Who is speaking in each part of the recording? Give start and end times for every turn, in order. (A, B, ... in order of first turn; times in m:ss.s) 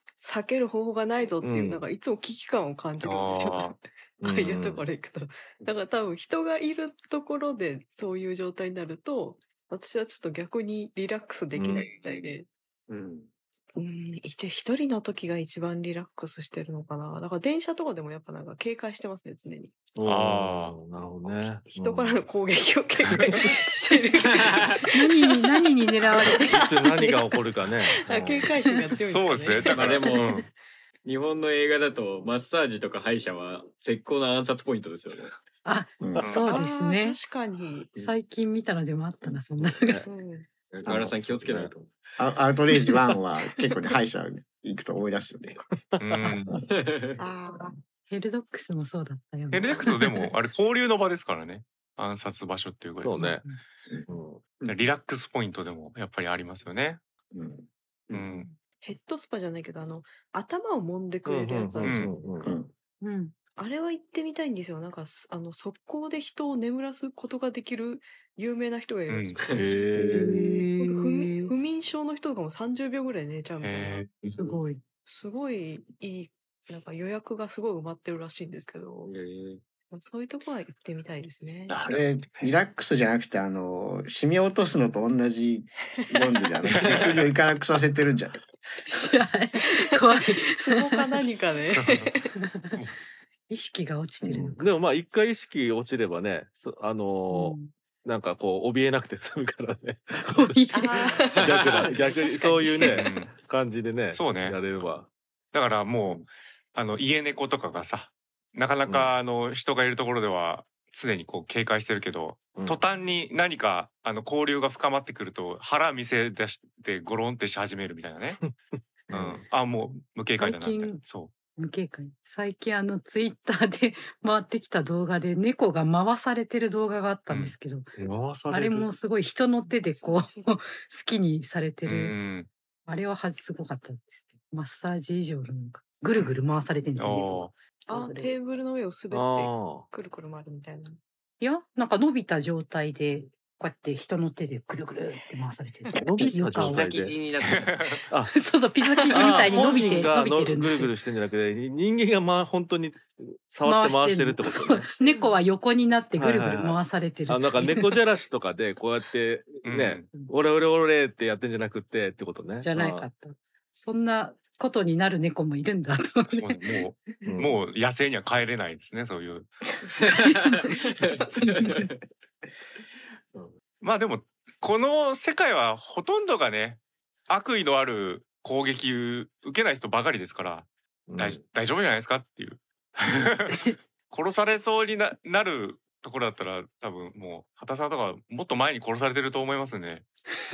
0:00.2-0:12.5 A
0:01.4-0:01.8 B
0:03.0-0:03.8 C
0:04.2-0:04.8 B
0:11.6-0:11.8 B
0:12.9-0:13.3 D
0:13.8-0:19.8 A
0:20.0-0:22.2 B
0:20.0-0:20.8 C
0:21.2-0:25.6 A
0:24.2-0:24.8 D
0:24.9-0:27.4 E
0:26.2-0:26.9 A
0:26.5-0:28.5 B
0:27.8-0:30.4 A
0:29.0-0:30.5 C
0:29.7-0:30.2 D
0:31.0-0:35.3 D
0:35.6-0:37.2 E
0:36.0-0:36.3 F
0:36.2-0:36.6 C
0:36.3-0:37.9 A
0:37.9-0:40.0 E
0:39.2-0:40.1 B
0:40.0-0:40.5 A
0:40.7-0:41.9 D
0:40.8-0:41.1 F
0:40.8-0:41.7 B
0:42.2-0:45.6 F
0:46.0-0:46.5 C
0:46.2-0:46.6 F
0:46.7-0:47.2 D
0:47.2-0:47.7 A
0:48.1-0:50.3 E
0:49.5-0:53.3 C
0:53.0-0:53.4 B
0:53.2-0:53.6 E
0:54.1-0:54.4 B
0:54.6-0:57.0 C
0:57.3-0:57.7 F
0:58.1-0:58.5 C
0:58.8-1:02.5 A
1:01.2-1:02.5 B
1:01.8-1:02.1 C
1:02.4-1:02.7 F
1:03.0-1:03.3 E
1:03.6-1:14.1 A
1:09.1-1:09.4 C
1:09.4-1:09.6 D
1:09.5-1:10.4 B
1:10.1-1:11.5 E
1:13.6-1:14.1 C
1:14.3-1:14.8 E
1:15.0-1:19.1 A
1:19.0-1:19.6 D
1:19.9-1:21.8 A
1:21.7-1:22.5 C
1:21.9-1:28.6 F
1:26.8-1:27.1 D
1:28.9-1:31.2 E
1:29.6-1:32.3 A
1:31.7-1:32.1 C
1:33.5-1:34.7 E
1:34.2-1:40.6 B
1:37.3-1:37.7 E
1:40.3-1:41.2 E
1:40.7-1:42.4 A
1:41.4-1:45.1 B
1:42.0-1:43.0 E
1:42.8-1:43.3 C
1:44.1-1:44.6 C
1:45.5-1:58.4 C
1:48.8-1:49.2 B
1:52.5-1:52.8 B
1:58.4-1:59.4 B
1:59.1-2:01.3 C
2:00.3-2:01.0 E
2:01.6-2:07.9 E
2:07.3-2:07.6 C
2:08.0-2:08.9 B
2:08.5-2:12.2 E
2:09.9-2:10.3 A
2:11.8-2:12.5 C
2:12.8-2:18.3 E
2:17.0-2:17.5 C
2:17.9-2:21.0 A
2:19.1-2:19.9 B
2:21.4-2:26.9 E
2:25.9-2:27.2 B
2:26.6-2:27.8 D
2:27.4-2:28.0 C
2:28.3-2:30.9 E
2:29.0-2:30.1 A
2:29.1-2:34.9 B
2:33.6-2:38.0 E
2:35.1-2:35.4 A
2:36.1-2:43.0 B
2:39.6-2:40.1 C
2:42.6-2:46.8 E
2:46.3-2:49.5 C
2:47.2-2:47.6 B
2:50.0-2:51.9 D
2:50.3-2:50.7 E
2:53.8-3:10.0 C
3:01.1-3:01.4 B